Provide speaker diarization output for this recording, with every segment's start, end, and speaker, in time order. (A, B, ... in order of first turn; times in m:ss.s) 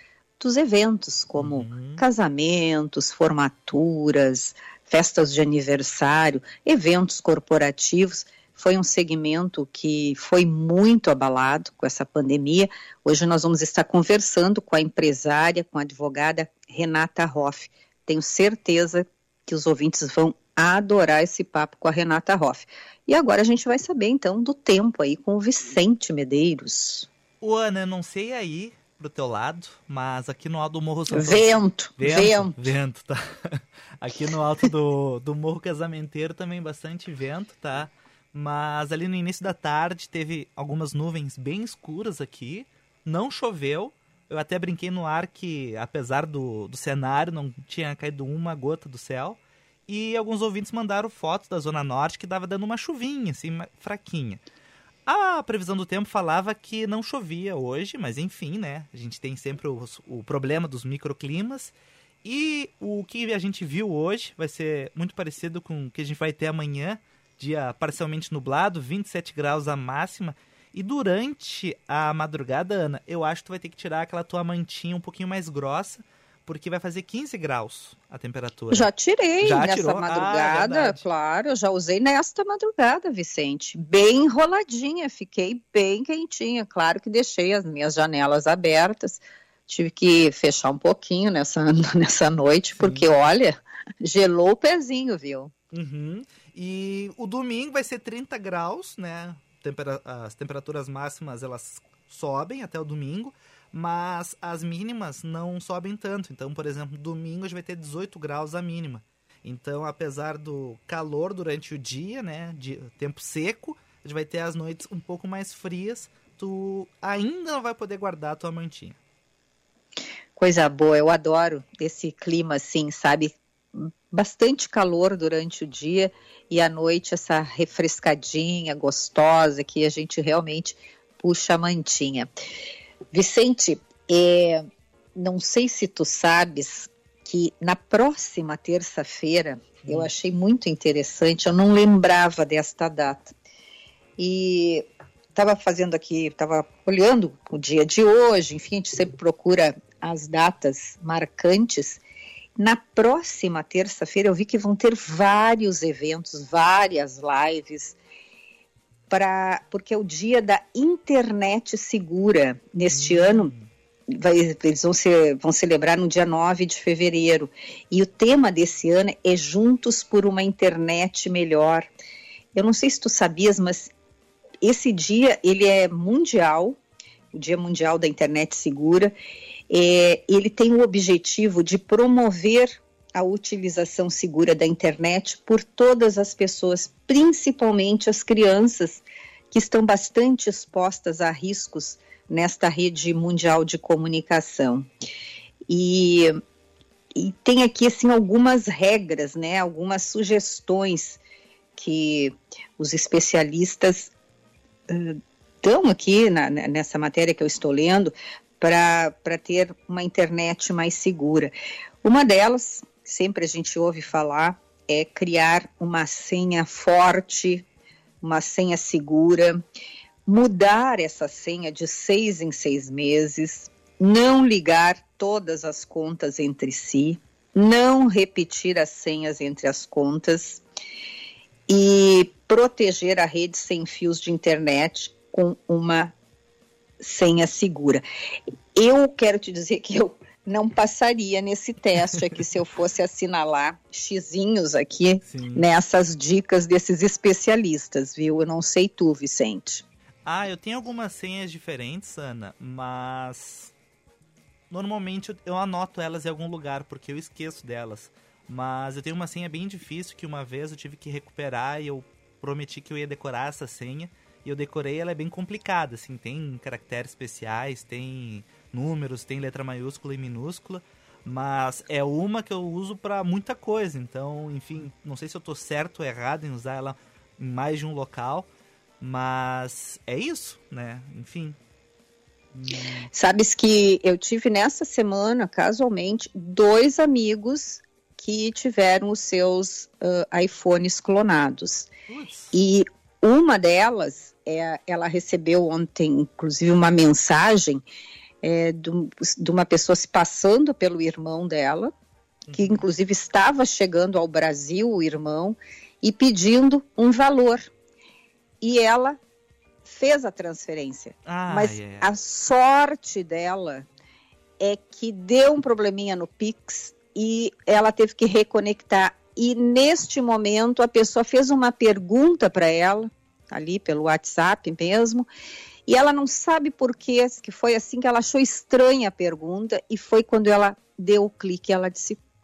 0:00.4-0:27.1 A
0:01.4-0:02.0 B
0:27.4-0:54.4 B
0:31.1-0:32.6 A
0:55.1-1:18.9 B
1:18.7-1:35.5 A
1:19.4-1:21.0 B
1:32.8-1:33.1 B
1:35.7-1:59.0 B
2:00.4-2:12.3 A
2:13.1-2:23.4 A
2:19.8-2:20.1 B
2:24.2-2:32.0 A
2:32.6-2:38.0 A
2:39.1-2:43.5 A
2:42.9-2:43.7 B
2:44.1-2:51.9 A
2:52.5-2:53.9 A
2:54.6-2:56.8 A
2:57.3-2:59.1 A
2:59.7-3:14.9 A
3:15.7-3:16.4 A
3:17.1-3:21.2 A
3:21.8-3:24.1 A
3:24.9-3:37.7 A
3:38.2-3:39.6 A
3:40.3-3:50.6 A
3:51.7-3:56.1 A
3:57.0-3:58.0 A
3:58.8-4:09.8 A
4:05.3-4:05.7 B
4:10.2-4:13.7 B
4:14.7-4:38.5 B
4:39.0-4:41.6 B
4:42.5-4:43.1 B
4:43.1-4:51.9 A
4:52.1-4:52.6 B
4:52.5-4:57.8 A
4:58.4-5:01.9 A
5:02.5-5:02.8 B
5:02.5-5:07.7 A
5:08.6-5:09.2 A
5:09.8-5:13.9 A
5:11.3-5:12.1 B
5:14.6-5:25.3 A
5:25.9-5:32.2 A